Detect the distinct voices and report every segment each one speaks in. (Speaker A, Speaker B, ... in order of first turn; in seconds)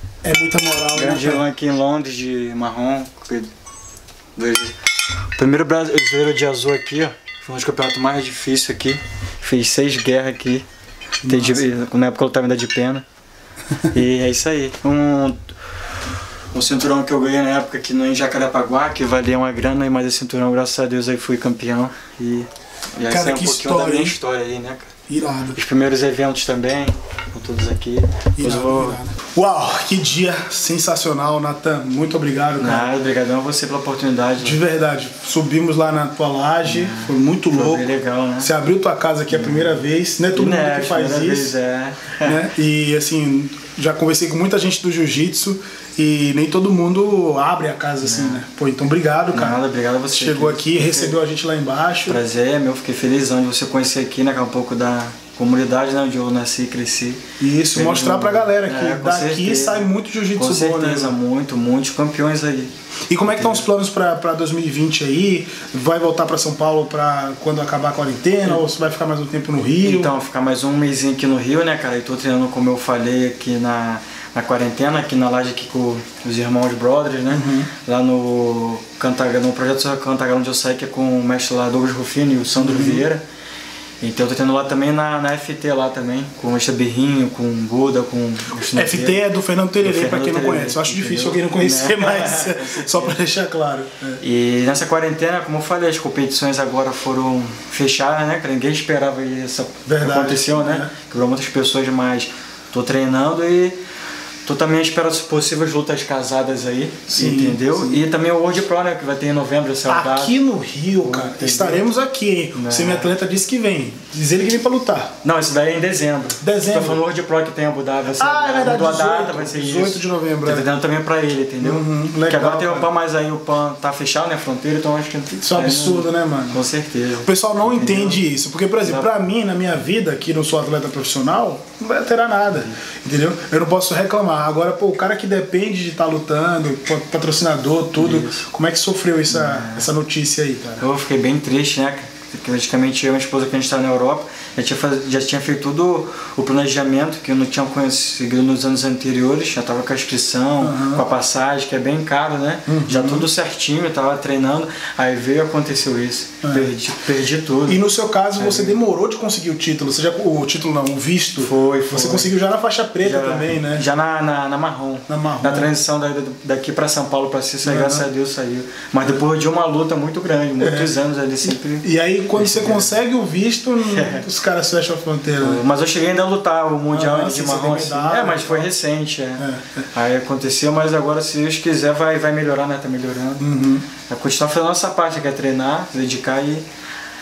Speaker A: 0.2-1.4, 11.2-11.7, 23.1-24.2, 25.1-25.6, 28.4-32.9, 34.4-41.5, 42.2-52.2, 57.4-61.1, 63.1-70.1, 77.3-77.7, 82.6-83.1, 88.7-94.2, 99.9-100.9, 107.1-108.1, 109.9-115.1, 116.4-117.0, 118.2-120.7, 121.6-122.9, 125.3-126.6, 127.2-140.8, 150.6-151.0, 152.7-153.3, 156.4-156.7, 157.7-163.8, 165.1-165.7, 167.6-168.1, 170.6-171.0, 171.8-175.6, 176.9-178.7, 179.4-179.8, 183.4-183.8
Speaker B: 0.9-3.5, 4.4-4.8, 5.4-10.7, 11.3-13.1, 13.9-15.5, 16.5-24.9, 25.6-29.0, 32.6-34.6, 36.6-38.5, 39.3-39.8, 40.3-42.4, 48.0-48.4, 49.3-51.2, 52.1-62.7, 63.2-63.7, 69.8-83.2, 84.0-89.2, 89.8-93.2, 94.2-103.8, 104.5-110.3, 111.0-111.9, 112.5-113.1, 115.2-128.2, 138.0-138.5, 139.3-139.9, 140.8-157.8, 158.4-158.8, 161.4-162.3, 163.0-172.9, 173.9-174.2, 175.4-183.5, 184.1-186.7